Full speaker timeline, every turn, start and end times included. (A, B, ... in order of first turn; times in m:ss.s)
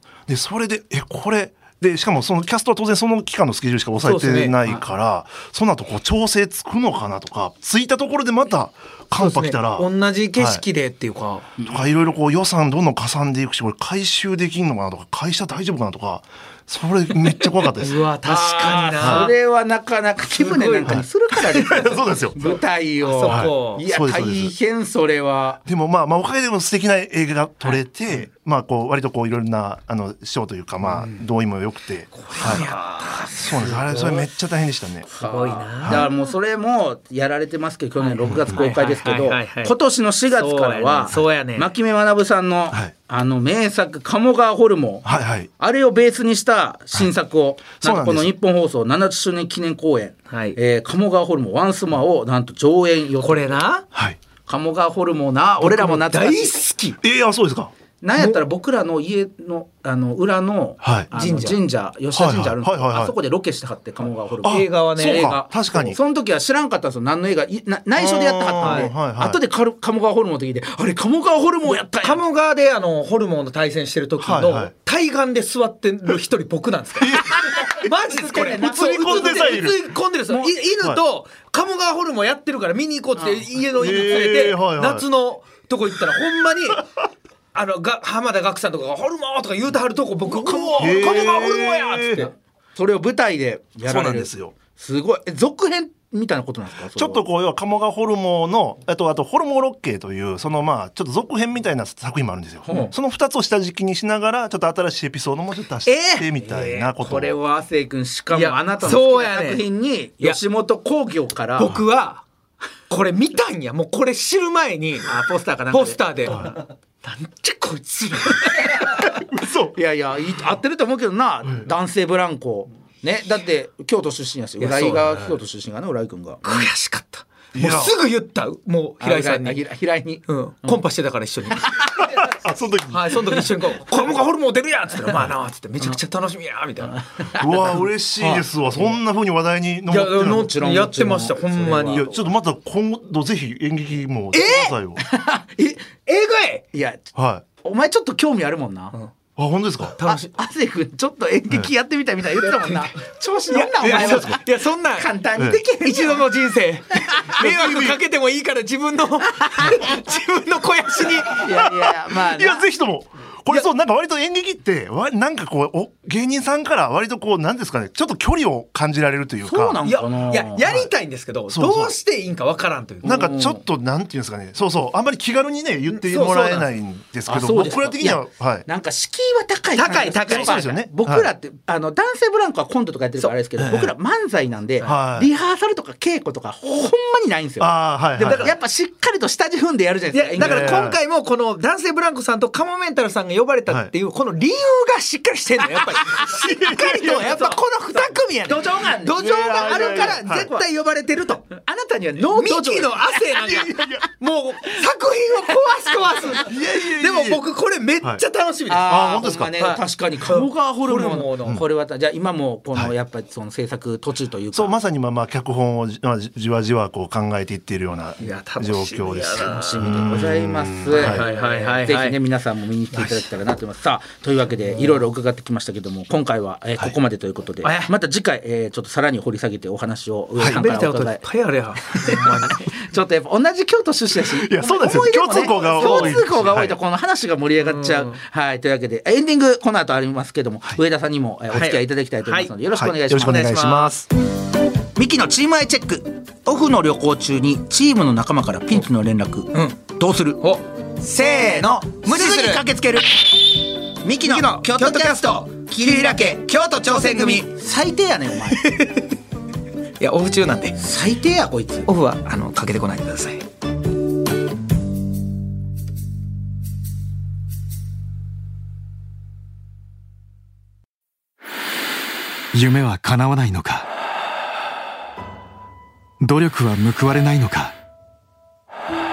0:00.3-0:10.6 A
0:04.0-0:04.8 B
0:09.2-0:11.5 B
0:11.6-0:11.9 C
0:11.7-0:18.0 A
0:17.8-0:19.3 B
0:18.2-0:25.6 C
0:19.0-0:19.3 A
0:20.3-0:23.8 B
0:21.8-0:22.4 A
0:23.3-0:24.5 A
0:25.7-0:32.6 A
0:32.2-0:34.2 B
0:32.3-0:33.7 C
0:33.4-0:35.1 A
0:35.1-0:45.1 C
0:35.2-0:36.1 B
0:38.0-0:39.8 B
0:40.3-0:41.7 B
0:45.0-0:45.5 A
0:45.6-0:53.6 C
0:47.8-0:48.3 A
0:50.3-0:50.6 B
0:53.2-0:53.9 B
0:54.5-0:56.6 C
0:55.6-0:57.0 B
0:57.0-0:57.7 A
0:58.0-1:12.2 C
0:58.2-0:58.4 B
1:00.8-1:01.1 A
1:01.1-1:01.6 B
1:02.2-1:03.1 A
1:04.4-1:06.0 A
1:04.4-1:05.4 B
1:08.0-1:09.4 A
1:08.6-1:08.9 B
1:12.0-1:26.8 B
1:14.2-1:14.7 A
1:17.0-1:17.8 A
1:17.9-1:20.6 C
1:18.6-1:19.8 A
1:23.2-1:23.6 C
1:23.8-1:25.1 A
1:27.5-1:32.3 B
1:30.3-1:32.3 A
1:30.8-1:31.4 C
1:32.8-1:37.2 C
1:33.8-1:34.6 A
1:37.0-1:47.4 A
1:42.7-1:42.9 C
1:45.8-1:46.7 B
1:46.4-1:51.8 C
1:48.3-1:49.6 B
1:51.6-1:52.2 B
1:52.9-1:55.1 B
1:55.0-1:56.5 C
1:55.7-1:59.0 B
1:59.1-1:59.8 A
1:59.7-2:06.7 C
2:04.6-2:05.2 B
2:06.4-2:09.6 B
2:07.6-2:08.0 A
2:09.0-2:10.8 C
2:10.3-2:11.8 B
2:11.8-2:13.5 A
2:12.9-2:17.0 B
2:17.4-2:20.6 A
2:17.4-2:17.7 C
2:18.2-2:18.9 B
2:19.9-2:22.1 B
2:20.2-2:22.3 C
2:21.9-2:25.0 A
2:24.3-2:24.7 B
2:24.4-2:25.9 C
2:26.1-2:26.6 B
2:26.7-2:29.0 C
2:27.2-2:27.4 A
2:29.4-2:30.0 A
2:29.9-2:30.3 B
2:30.0-2:36.3 C
2:32.4-2:32.9 B
2:33.5-2:35.1 B
2:33.8-2:34.4 A
2:35.4-2:35.6 A
2:35.8-2:41.5 B
2:37.4-2:38.0 A
2:41.3-2:42.7 C
2:41.5-2:49.8 A
2:49.4-2:50.7 C
2:49.8-2:53.4 B
2:51.5-2:51.9 A
2:53.0-2:53.6 C
2:53.0-2:58.7 A
2:55.9-2:56.7 B
2:57.3-3:10.8 C
2:59.8-3:00.6 B
3:00.3-3:01.3 A
3:03.6-3:03.9 A
3:04.8-3:05.3 A
3:07.6-3:08.5 A
3:10.1-3:21.5 B
3:10.4-3:11.0 A
3:13.7-3:13.9 A
3:15.6-3:20.6 C
3:16.6-3:17.3 A
3:19.2-3:20.5 A
3:21.5-3:23.5 C
3:22.2-3:31.6 B
3:23.5-3:24.0 A
3:26.4-3:27.5 A
3:28.7-3:34.8 C
3:28.8-3:29.5 A
3:34.5-3:41.2 A
3:38.2-3:40.1 B
3:39.4-3:51.2 C
3:40.9-3:42.2 B
3:44.6-3:45.0 B
3:47.6-3:47.9 B
3:50.5-3:52.8 B
3:51.9-4:03.6 C
3:54.4-3:56.8 A
3:55.2-3:56.2 B
3:57.6-3:58.2 B
4:01.5-4:02.5 B
4:02.7-4:04.1 A
4:03.2-4:03.9 B
4:05.0-4:18.7 C
4:09.5-4:09.8 B
4:10.4-4:12.7 B
4:14.2-4:17.5 B
4:18.5-4:19.1 B
4:20.0-4:20.8 B
4:20.8-4:21.9 C
4:21.9-4:23.4 B
4:32.5-4:33.9 D
4:36.2-4:37.8 D